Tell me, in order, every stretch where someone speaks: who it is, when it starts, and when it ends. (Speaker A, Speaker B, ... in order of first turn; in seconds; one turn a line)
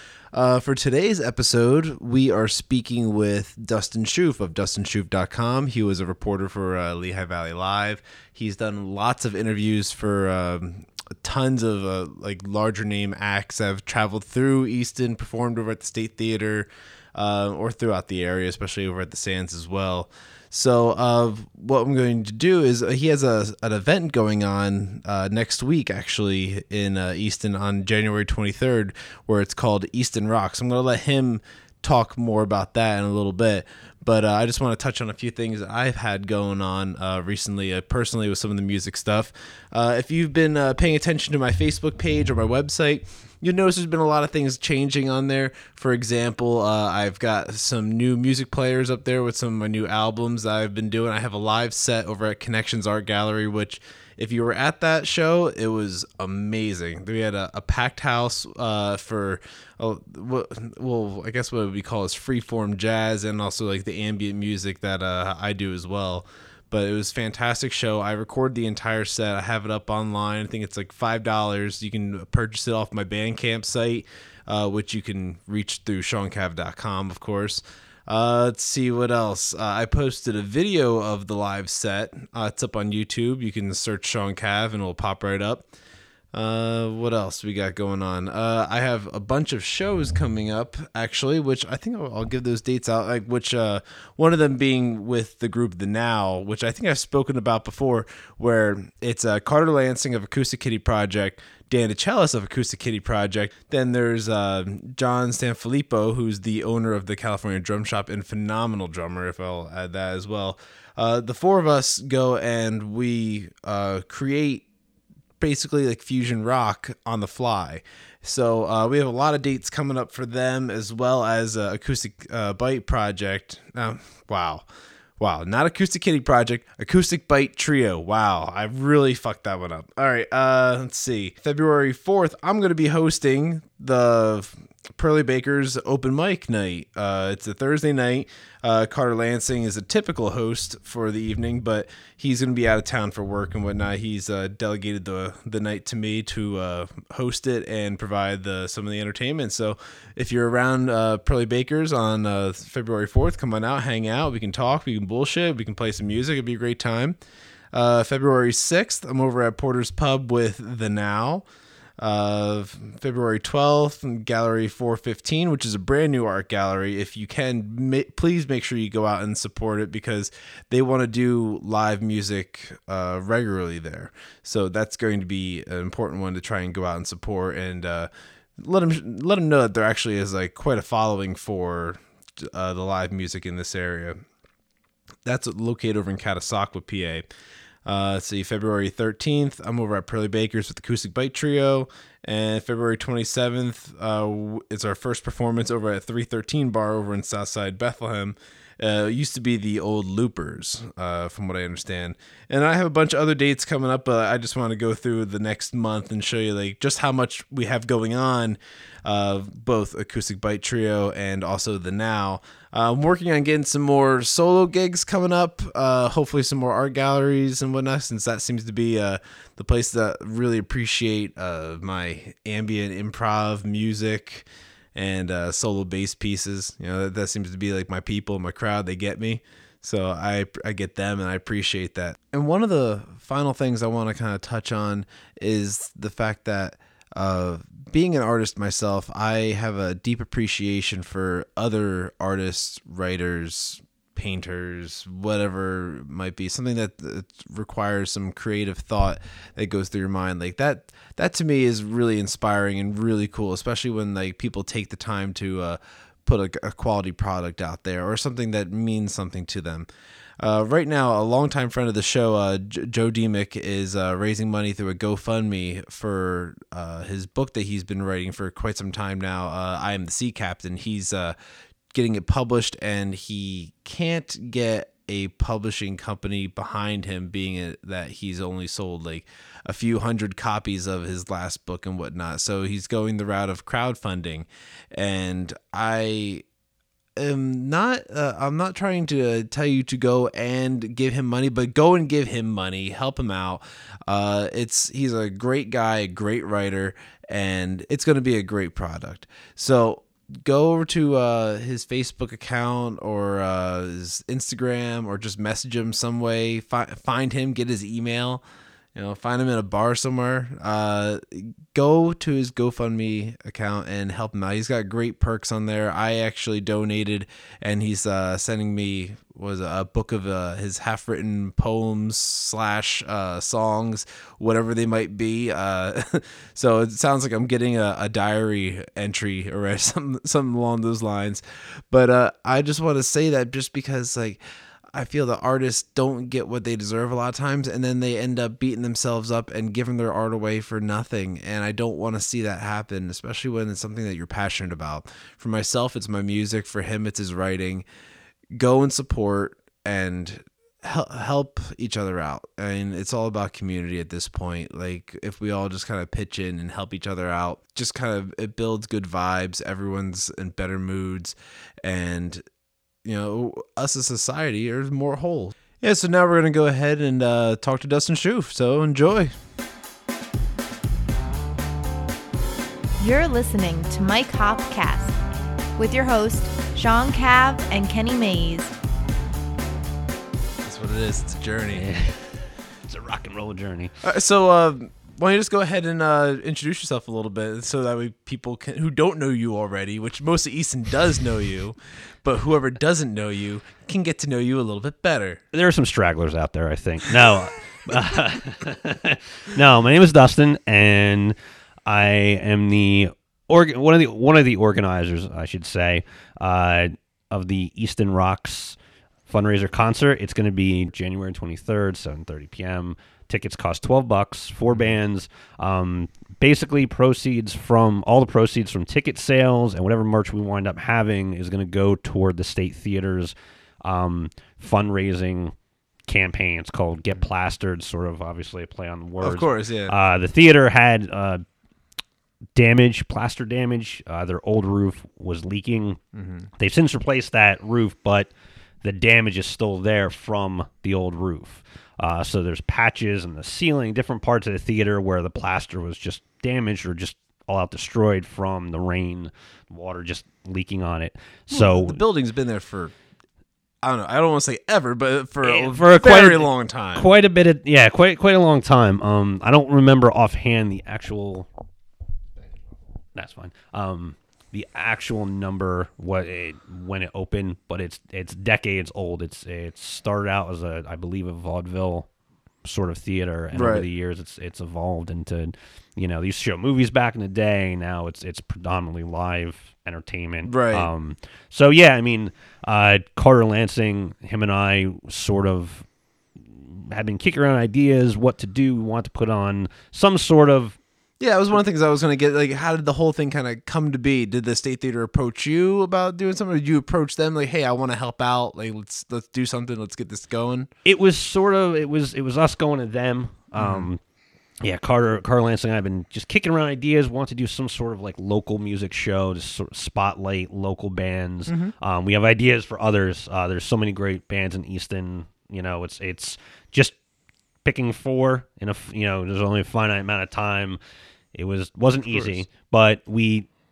Speaker A: 0.3-85.7
Speaker A: 86.3-114.6
Speaker A: 115.4-124.6
Speaker A: 125.2-157.2
Speaker A: 157.7-161.4
Speaker A: 162.0-184.2
Speaker A: 185.2-187.2
Speaker A: 187.8-259.9
Speaker A: 260.4-271.4
Speaker A: 271.9-286.4
Speaker A: 287.2-308.4
Speaker A: 308.9-334.4
Speaker A: 334.9-347.8
Speaker A: 348.5-362.4
Speaker A: 363.0-369.3
Speaker B: 373.0-375.1
Speaker B: 375.8-378.7
Speaker A: 380.6-381.9
Speaker C: 381.7-384.0
Speaker A: 384.0-395.4
Speaker C: 395.5-408.8
Speaker C: 409.3-425.5
Speaker C: 426.1-431.4
Speaker A: 429.2-429.9
Speaker C: 432.5-436.0
Speaker A: 436.1-436.5
Speaker C: 436.5-438.3
Speaker C: 438.8-452.0
Speaker A: 451.5-452.9
Speaker A: 453.8-457.1
Speaker C: 455.4-461.5
Speaker C: 463.1-472.1
Speaker C: 472.6-490.8
Speaker A: 473.5-473.9
Speaker A: 480.4-480.9
Speaker A: 491.2-500.7
Speaker C: 500.8-504.0
Speaker A: 503.6-503.9
Speaker C: 504.6-517.0
Speaker A: 511.5-511.7
Speaker C: 517.6-520.8
Speaker C: 521.3-523.5
Speaker A: 522.0-522.4